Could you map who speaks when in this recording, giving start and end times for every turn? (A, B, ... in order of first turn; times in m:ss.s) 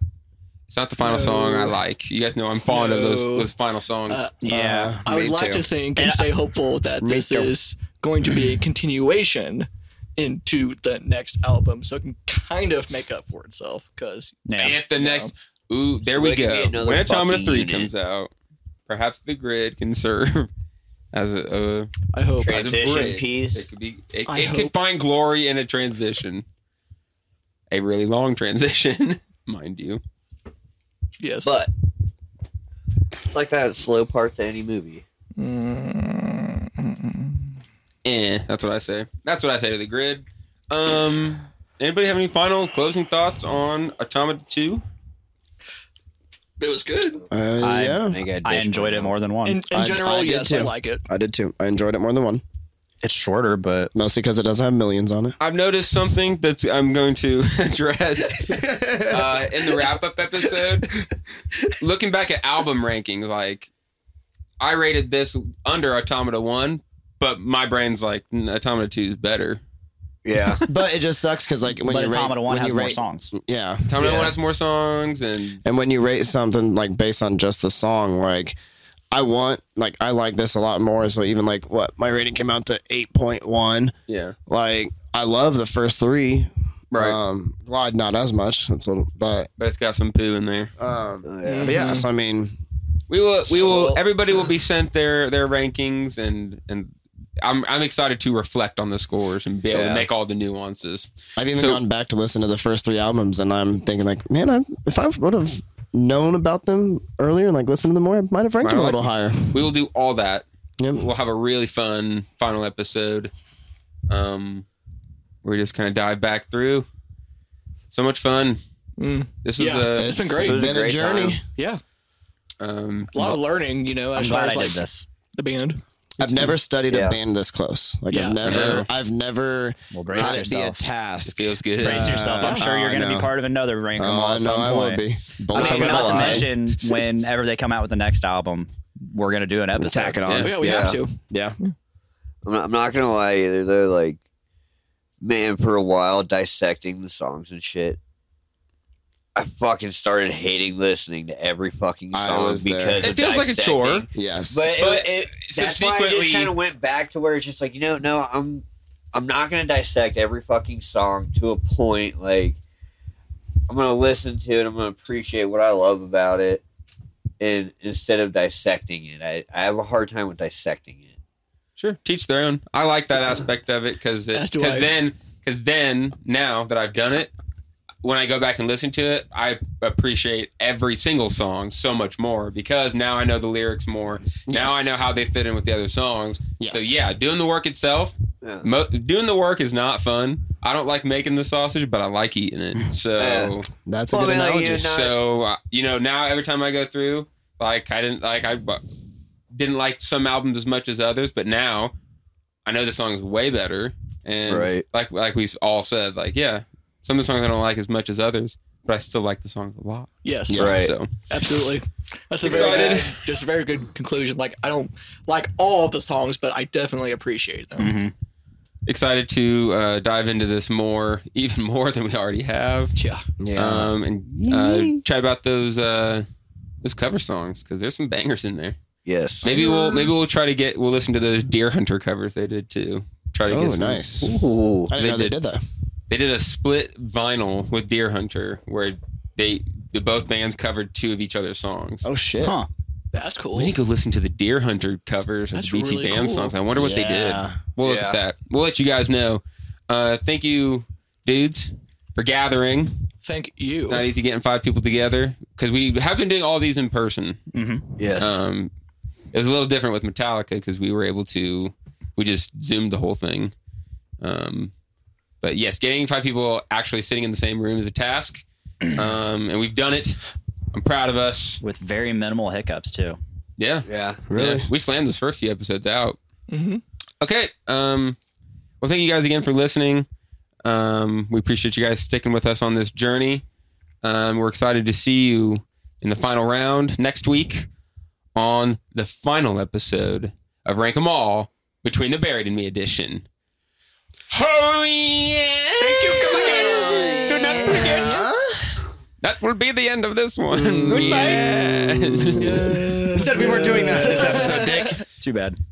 0:00.7-0:04.3 A
0:01.0-0:01.8 B
0:02.7-0:03.5 B
0:04.1-0:04.4 B
0:04.4-0:05.0 C
0:04.5-0:05.7 D
0:05.0-0:15.3 B
0:06.0-0:06.3 C
0:07.0-0:07.6 D
0:14.5-0:14.8 C
0:14.6-0:18.3 A
0:16.0-0:17.9 E
0:18.9-0:20.5 A
0:21.1-0:21.9 A
0:22.1-0:22.6 B
0:22.4-0:23.6 E
0:22.5-0:26.4 A
0:24.3-0:24.7 B
0:27.7-0:30.0 A
0:31.2-0:31.5 B
0:31.4-0:31.7 E
0:33.3-0:35.0 E
0:35.4-0:37.5 B
0:38.0-0:44.8 A
0:46.6-0:47.2 B
0:47.3-0:48.2 D
0:47.6-0:49.6 C
0:48.0-0:49.2 E
0:49.4-0:51.1 B
0:49.7-0:52.4 D
0:53.0-0:53.9 C
0:53.9-0:55.4 D
0:55.4-1:00.9 A
0:58.5-0:59.6 D
1:01.8-1:03.7 A
1:04.6-1:09.6 A
1:10.2-1:10.6 E
1:10.7-1:14.3 D
1:11.8-1:13.3 C
1:13.9-1:15.6 A
1:14.0-1:14.3 E
1:15.6-1:18.6 D
1:19.1-1:23.9 D
1:24.1-1:24.4 A
1:24.5-1:29.5 D
1:26.9-1:27.2 A
1:29.6-1:30.7 A
1:30.8-1:32.6 D
1:31.2-1:31.9 E
1:31.4-1:32.1 B
1:33.1-1:41.8 A
1:33.6-1:34.0 E
1:39.7-1:40.1 E
1:41.4-1:49.7 D
1:48.6-1:50.4 A
1:50.8-1:51.1 D
1:51.0-1:53.3 A
1:54.1-1:54.6 A
1:55.4-1:56.9 A
1:57.9-1:58.6 A
1:59.0-2:00.8 B
1:59.4-2:00.3 A
2:00.0-2:01.4 D
2:00.4-2:01.4 E
2:01.5-2:01.8 B
2:02.6-2:03.4 A
2:03.1-2:06.4 B
2:04.2-2:05.0 C
2:06.2-2:13.3 D
2:06.9-2:07.2 E
2:08.1-2:08.8 B
2:08.4-2:08.9 A
2:09.9-2:10.8 C
2:11.2-2:12.6 A
2:11.8-2:20.2 C
2:14.0-2:16.5 D
2:15.6-2:16.5 E
2:15.9-2:16.4 B
2:19.8-2:21.6 D
2:20.2-2:20.6 A
2:20.4-2:21.7 B
2:20.6-2:21.0 E
2:22.4-2:24.2 E
2:25.2-2:28.0 E
2:29.4-2:42.6 E
2:32.1-2:33.0 D
2:33.0-2:34.1 A
2:34.2-2:34.7 D
2:34.7-2:36.5 A
2:43.7-2:46.6 E
2:47.4-2:51.1 E
2:51.8-2:57.3 A
2:54.3-2:54.9 B
2:58.0-3:13.7 A
3:04.5-3:05.0 D
3:06.6-3:07.0 D
3:13.2-3:13.6 E
3:13.8-3:15.0 D
3:14.1-3:15.2 E
3:14.8-3:18.8 A
3:19.5-3:21.9 A
3:22.6-3:31.1 A
3:24.5-3:24.8 E
3:30.2-3:30.6 B
3:30.5-3:30.8 D
3:30.6-3:30.9 E
3:31.3-3:38.0 B
3:32.4-3:33.2 A
3:32.5-3:33.0 E
3:37.8-3:38.1 C
3:38.9-3:43.0 A
3:43.0-3:43.2 B
3:43.4-3:43.9 D
3:43.6-3:46.3 A
3:44.5-3:45.0 E
3:46.8-3:48.8 A
3:49.1-3:49.5 E
3:49.4-3:54.3 A
3:49.5-3:50.1 B
3:53.5-3:54.4 D
3:54.2-3:55.0 E
3:54.9-3:55.6 D
3:55.0-3:55.4 A
3:56.1-4:02.0 A
4:02.0-4:02.6 D
4:02.4-4:02.7 C
4:03.1-4:03.8 B
4:03.5-4:13.0 A
4:05.6-4:06.5 B
4:06.8-4:07.6 D
4:07.8-4:08.2 E
4:13.2-4:14.1 B
4:13.9-4:17.4 A
4:17.5-4:18.0 C
4:18.0-4:18.4 E
4:18.2-4:18.7 A
4:19.3-4:23.5 A
4:24.2-4:24.7 A
4:25.4-4:30.2 A
4:30.7-4:31.6 A
4:31.6-4:33.2 C
4:33.6-4:36.2 A
4:33.9-4:34.3 E
4:34.3-4:34.7 D
4:36.5-4:36.8 B
4:37.2-4:38.2 A
4:38.8-4:40.1 A
4:40.6-4:43.4 A
4:44.0-4:47.7 A
4:48.4-4:53.2 A
4:54.3-4:58.2 A
4:55.8-4:58.2 B
4:56.2-4:58.8 D
4:59.2-5:02.7 A
5:00.9-5:04.3 E
5:00.9-5:01.4 C
5:02.4-5:05.0 B
5:02.5-5:05.0 D
5:05.2-5:05.6 C